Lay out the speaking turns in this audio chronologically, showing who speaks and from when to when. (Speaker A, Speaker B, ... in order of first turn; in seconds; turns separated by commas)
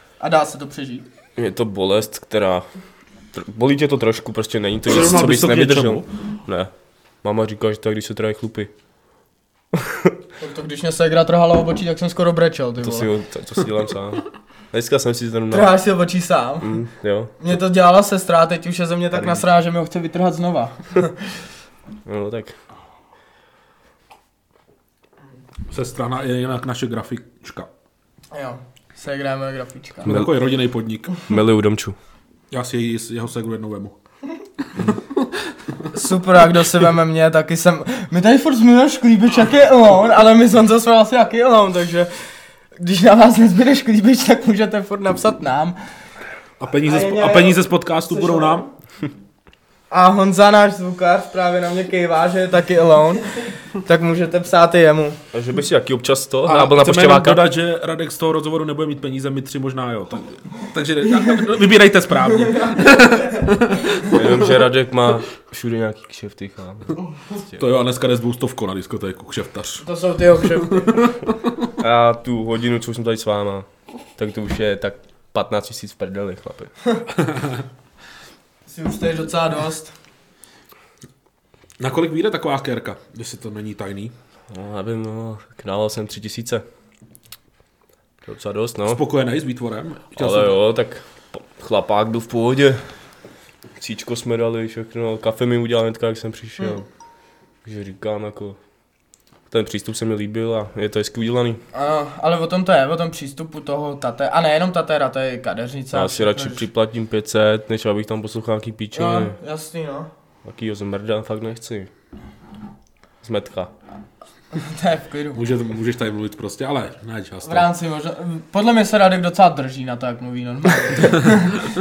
Speaker A: 0.2-1.0, Speaker B: 1.4-2.7, Speaker B: 3.3-6.7, Speaker C: 4.8-6.1, Speaker B: 7.2-8.7, Speaker B: 9.7-10.2, Speaker A: 10.4-13.1, Speaker B: 12.8-15.7, Speaker A: 15.5-16.8, Speaker B: 16.6-17.4, Speaker A: 17.4-21.2, Speaker B: 19.1-19.4, Speaker B: 22.1-22.5, Speaker C: 25.7-27.7, Speaker A: 28.3-30.1, Speaker C: 30.1-31.2, Speaker B: 31.3-31.9, Speaker C: 32.5-33.9, Speaker C: 34.8-35.3, Speaker A: 35.9-42.1, Speaker A: 42.8-45.8, Speaker C: 46.6-48.7, Speaker A: 46.9-48.7, Speaker A: 49.9-53.3, Speaker A: 53.8-55.2, Speaker B: 55.3-57.4, Speaker C: 56.5-64.3, Speaker B: 64.0-66.9, Speaker C: 67.6-69.8, Speaker A: 69.8-71.0, Speaker C: 70.6-71.2, Speaker B: 71.8-76.7, Speaker C: 77.3-77.6, Speaker A: 78.7-79.9, Speaker C: 81.8-84.1, Speaker B: 84.5-86.6, Speaker B: 88.2-89.0, Speaker C: 88.8-90.6, Speaker B: 90.2-92.8, Speaker B: 93.8-96.8, Speaker B: 97.6-98.6, Speaker B: 99.5-101.6, Speaker A: 101.7-106.6, Speaker B: 105.9-109.3, Speaker A: 108.9-110.1, Speaker B: 110.4-111.9, Speaker B: 113.2-113.7, Speaker A: 114.5-115.4, Speaker C: 115.3-117.7, Speaker A: 117.4-121.6